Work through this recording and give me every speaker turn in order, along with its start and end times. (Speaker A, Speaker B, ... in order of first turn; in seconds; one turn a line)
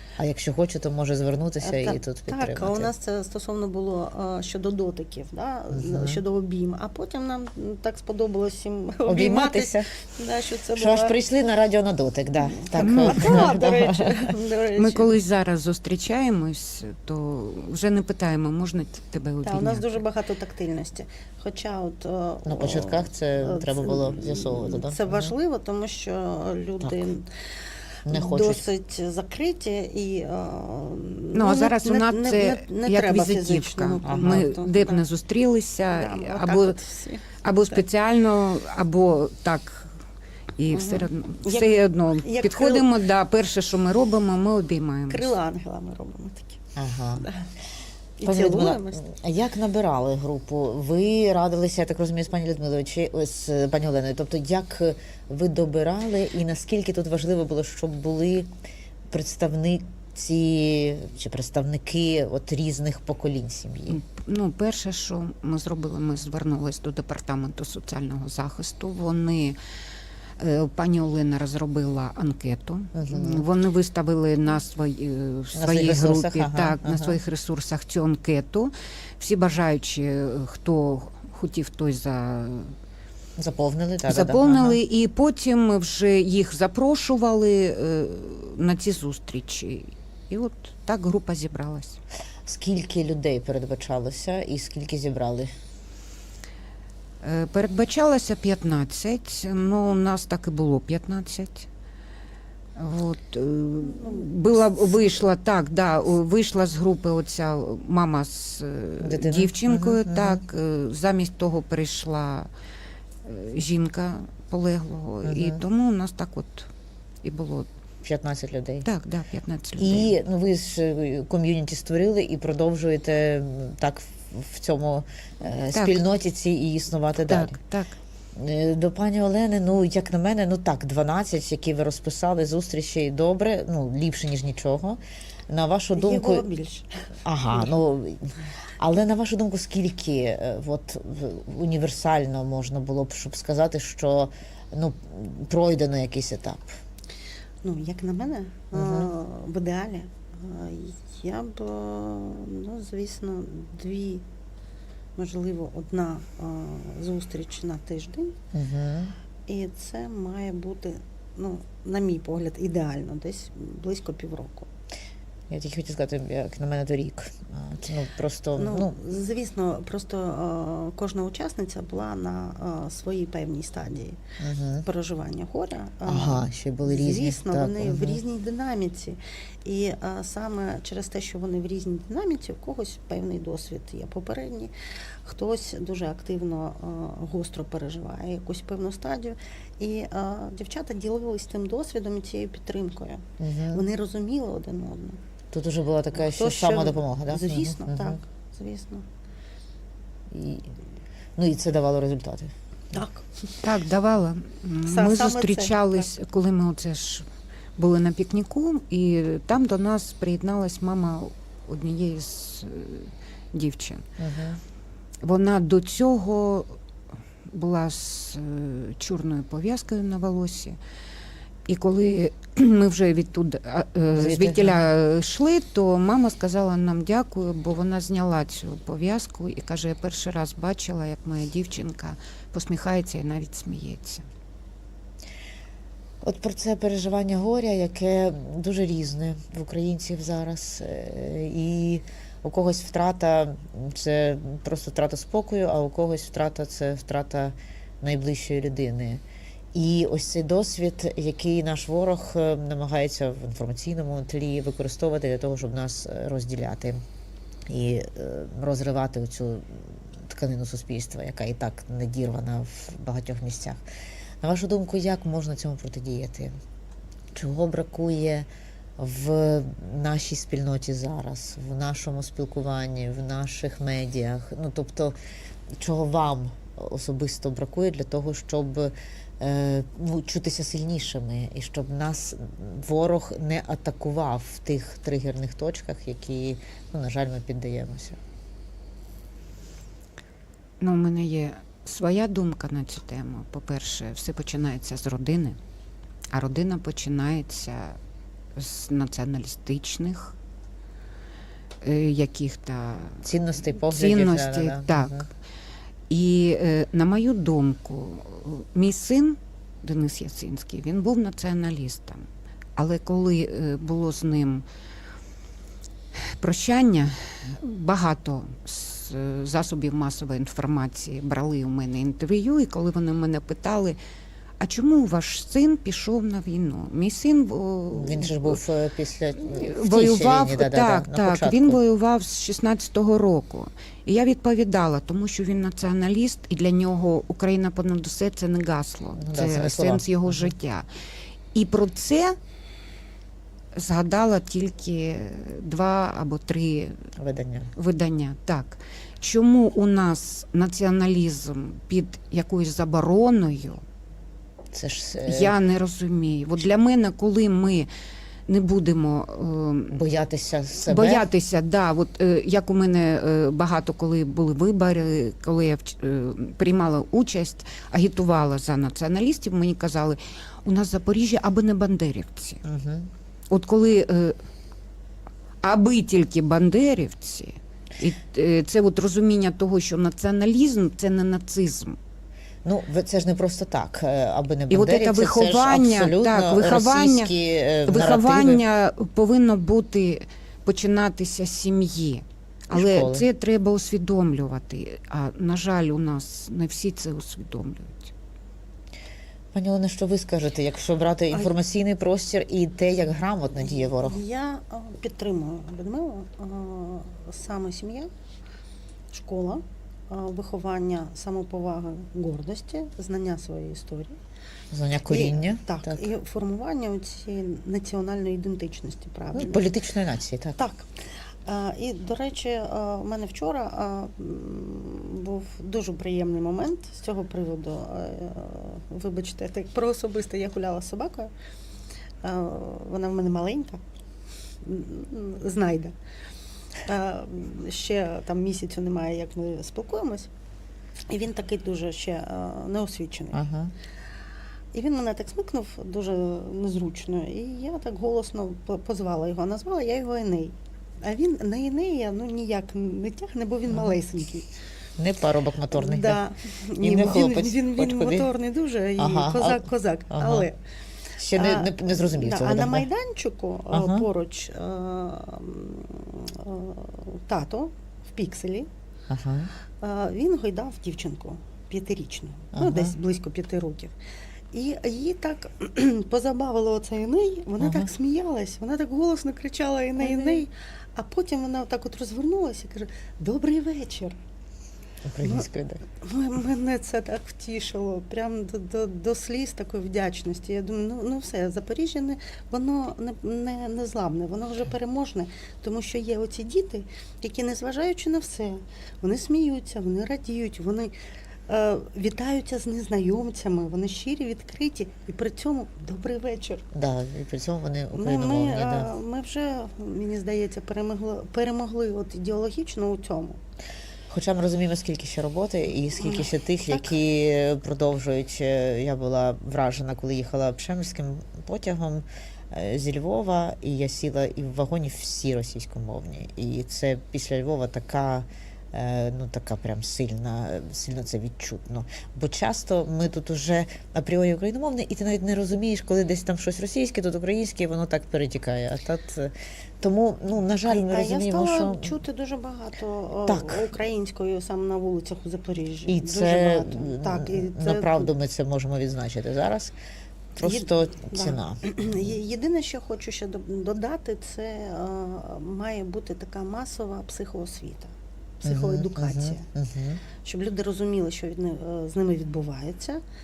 Speaker A: 0.2-2.9
Speaker B: 1.6-11.2
Speaker A: 5.7-6.2
Speaker A: 9.1-9.9
Speaker A: 10.8-14.3
Speaker B: 12.4-15.1
Speaker C: 12.8-13.5
Speaker C: 14.8-20.0
Speaker B: 19.4-35.0
Speaker A: 22.4-25.3
Speaker A: 28.1-28.6
Speaker C: 31.3-36.8
Speaker A: 34.0-34.4
Speaker B: 35.9-37.8
Speaker C: 37.4-39.9
Speaker C: 40.6-45.3
Speaker B: 40.7-42.9
Speaker B: 45.1-46.6
Speaker A: 46.8-47.3
Speaker B: 47.2-47.5
Speaker B: 48.2-49.0
Speaker A: 48.2-58.5
Speaker A: 59.1-64.0
Speaker C: 63.9-69.6
Speaker C: 70.4-82.8
Speaker A: 72.9-73.4
Speaker A: 75.5-77.2
Speaker A: 83.4-84.8
Speaker C: 84.1-92.0
Speaker A: 92.5-95.5
Speaker C: 97.2-101.7
Speaker C: 102.8-112.5
Speaker B: 103.8-104.3
Speaker A: 109.0-110.4
Speaker C: 113.2-116.7
Speaker A: 115.2-115.6
Speaker C: 117.2-117.7
Speaker A: 118.0-118.9
Speaker C: 118.8-120.1
Speaker A: 119.8-127.6
Speaker C: 125.7-126.0
Speaker C: 127.3-128.0
Speaker A: 128.3-136.4
Speaker B: 135.9-137.8
Speaker A: 137.2-146.8
Speaker B: 147.6-154.2
Speaker A: 148.7-149.1
Speaker B: 155.2-158.4
Speaker A: 158.5-159.1
Speaker B: 159.5-164.7
Speaker A: 165.5-168.9
Speaker B: 168.6-174.2
Speaker A: 174.4-174.9
Speaker B: 174.8-184.7
Speaker A: 176.1-178.2
Speaker B: 185.2-195.2
Speaker A: 193.4-193.8
Speaker A: 195.5-198.2
Speaker B: 196.1-199.1
Speaker A: 200.3-200.7
Speaker A: 201.4-202.5
Speaker B: 202.9-203.5
Speaker C: 203.6-207.2
Speaker B: 204.9-206.0
Speaker C: 207.8-214.0
Speaker A: 214.2-214.6
Speaker C: 215.2-216.8
Speaker C: 217.5-220.8
Speaker C: 221.7-234.2
Speaker A: 224.2-224.8
Speaker A: 236.2-249.2
Speaker A: 249.7-257.0
Speaker A: 257.7-263.8
Speaker A: 264.4-266.5
Speaker A: 267.4-268.5
Speaker A: 269.0-275.1
Speaker A: 275.8-288.2
Speaker C: 290.8-295.6
Speaker C: 296.3-298.0
Speaker C: 298.6-300.4
Speaker C: 301.8-305.2
Speaker A: 303.2-305.3
Speaker C: 306.1-314.6
Speaker C: 316.1-324.0
Speaker C: 324.6-328.6
Speaker A: 327.9-331.8
Speaker C: 329.4-340.9
Speaker A: 339.1-340.5
Speaker C: 341.5-342.4
Speaker C: 343.8-347.1
Speaker A: 347.2-347.7
Speaker C: 347.8-353.8
Speaker A: 354.7-355.5
Speaker C: 355.2-357.9
Speaker C: 358.5-360.0
Speaker A: 359.9-361.2
Speaker C: 360.9-372.6
Speaker A: 372.6-373.1
Speaker C: 373.5-374.4
Speaker C: 375.6-382.0
Speaker A: 382.6-388.6
Speaker C: 384.7-387.4
Speaker C: 387.9-398.1
Speaker A: 392.7-393.2
Speaker A: 399.5-404.2
Speaker B: 403.7-408.1
Speaker B: 409.1-414.2
Speaker A: 414.7-416.1
Speaker B: 415.1-419.7
Speaker A: 419.3-420.6
Speaker B: 420.6-431.3
Speaker B: 432.2-433.8
Speaker B: 434.6-435.9
Speaker B: 436.8-440.3
Speaker B: 441.1-443.4
Speaker A: 443.3-443.7
Speaker B: 444.7-454.5
Speaker A: 455.0-456.2
Speaker B: 455.7-460.6
Speaker A: 456.8-458.3
Speaker A: 459.0-460.5
Speaker A: 461.2-462.9
Speaker B: 461.3-468.7
Speaker A: 463.7-464.1
Speaker A: 469.1-469.5
Speaker B: 469.8-473.9
Speaker A: 472.5-472.9
Speaker B: 474.5-484.2
Speaker A: 477.6-477.9
Speaker A: 485.1-485.8
Speaker B: 485.2-485.5
Speaker B: 486.0-500.9
Speaker B: 501.5-506.7
Speaker A: 506.7-508.9
Speaker B: 507.9-513.4
Speaker A: 514.1-542.0
Speaker B: 516.0-516.9
Speaker B: 540.6-548.1
Speaker A: 543.3-543.7
Speaker A: 545.9-549.7
Speaker A: 550.4-552.1
Speaker B: 550.4-559.5
Speaker A: 558.4-560.0
Speaker B: 560.2-563.0